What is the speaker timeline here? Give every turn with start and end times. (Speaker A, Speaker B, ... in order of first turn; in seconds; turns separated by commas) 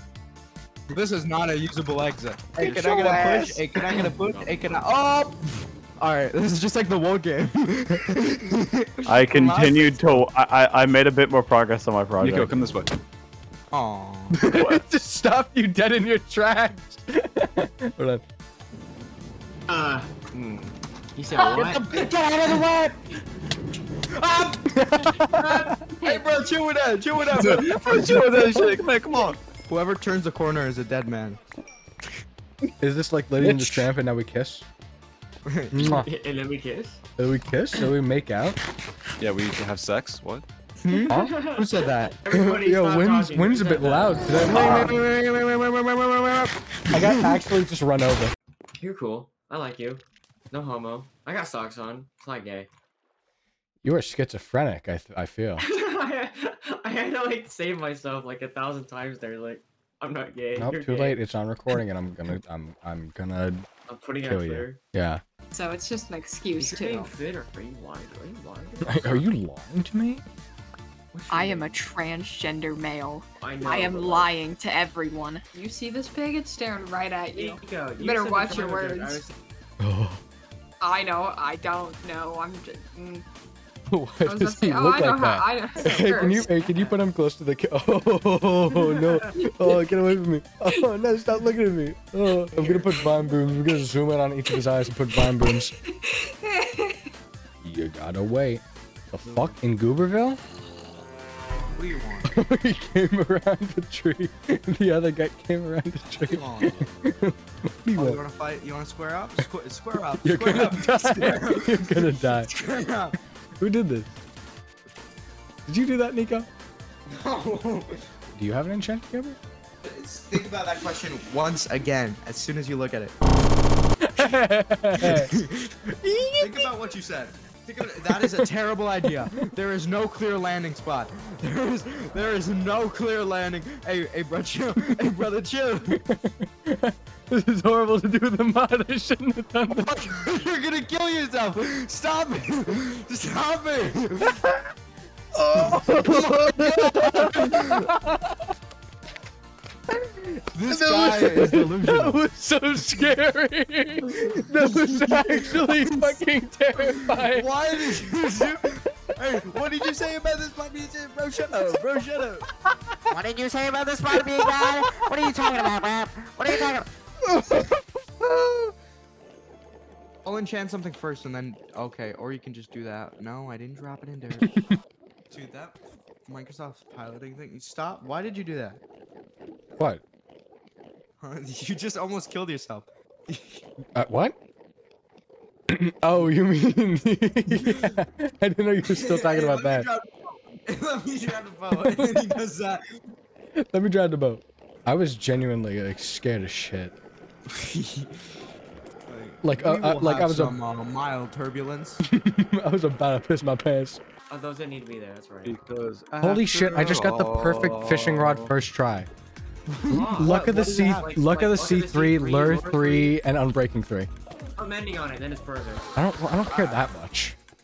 Speaker A: 0.9-10.2, Speaker B: 4.1-4.8, Speaker C: 9.1-12.6, Speaker D: 12.2-12.9, Speaker A: 13.7-14.5, Speaker E: 14.3-18.2, Speaker B: 19.7-22.6, Speaker A: 21.3-22.9, Speaker A: 24.1-24.7, Speaker E: 24.8-25.7, Speaker A: 25.6-28.8, Speaker D: 27.3-29.4, Speaker A: 29.7-31.4, Speaker E: 32.8-34.6, Speaker D: 33.4-33.9, Speaker A: 35.5-35.9, Speaker E: 35.7-36.1, Speaker B: 35.8-37.0, Speaker E: 37.2-38.6, Speaker D: 39.2-40.4, Speaker A: 40.8-42.2, Speaker B: 41.0-44.6, Speaker E: 41.1-41.4, Speaker E: 42.3-45.0, Speaker A: 44.5-47.4, Speaker E: 46.9-48.3, Speaker B: 48.8-52.7, Speaker E: 53.8-55.7, Speaker B: 55.6-61.2, Speaker E: 60.5-63.7, Speaker B: 63.9-64.8, Speaker E: 64.2-65.2, Speaker F: 65.5-67.1, Speaker B: 66.6-69.3, Speaker E: 68.8-70.2, Speaker B: 71.1-71.7, Speaker F: 71.3-79.2, Speaker B: 73.4-74.3, Speaker B: 77.3-79.3, Speaker E: 79.8-80.2, Speaker F: 80.8-83.2, Speaker E: 83.9-95.7, Speaker F: 84.2-86.5, Speaker B: 86.6-87.0, Speaker B: 88.7-89.1, Speaker B: 92.6-93.2, Speaker F: 95.2-97.0, Speaker E: 97.6-100.4, Speaker A: 99.2-99.6, Speaker A: 101.7-102.3, Speaker E: 102.2-108.2, Speaker A: 106.1-106.8, Speaker A: 107.9-113.2, Speaker E: 110.2-112.5, Speaker E: 113.6-114.2, Speaker E: 115.7-116.5, Speaker A: 117.1-118.0, Speaker E: 118.3-119.4, Speaker A: 119.8-123.1, Speaker E: 124.0-125.3, Speaker A: 125.0-125.7, Speaker E: 126.0-126.7, Speaker A: 126.3-136.0, Speaker E: 135.9-140.0, Speaker A: 139.9-144.4, Speaker E: 145.3-148.4, Speaker A: 145.5-147.9, Speaker E: 149.9-158.1, Speaker A: 150.5-152.2, Speaker A: 154.1-156.2, Speaker A: 156.8-162.4, Speaker G: 163.1-166.8, Speaker E: 167.3-168.7, Speaker A: 170.2-174.6, Speaker A: 175.3-178.8, Speaker E: 179.8-180.0, Speaker A: 181.2-183.6, Speaker E: 183.9-184.3, Speaker E: 185.7-189.9, Speaker A: 187.6-187.8, Speaker A: 188.9-192.8, Speaker E: 191.8-192.4, Speaker E: 193.6-196.9, Speaker A: 197.5-198.3, Speaker A: 199.1-202.0, Speaker E: 199.4-200.6, Speaker E: 202.1-204.0, Speaker B: 204.3-205.6, Speaker D: 205.4-208.5, Speaker E: 206.2-209.1, Speaker A: 209.7-211.1, Speaker B: 209.9-213.2, Speaker E: 210.1-214.1, Speaker B: 214.6-215.8, Speaker E: 215.9-217.3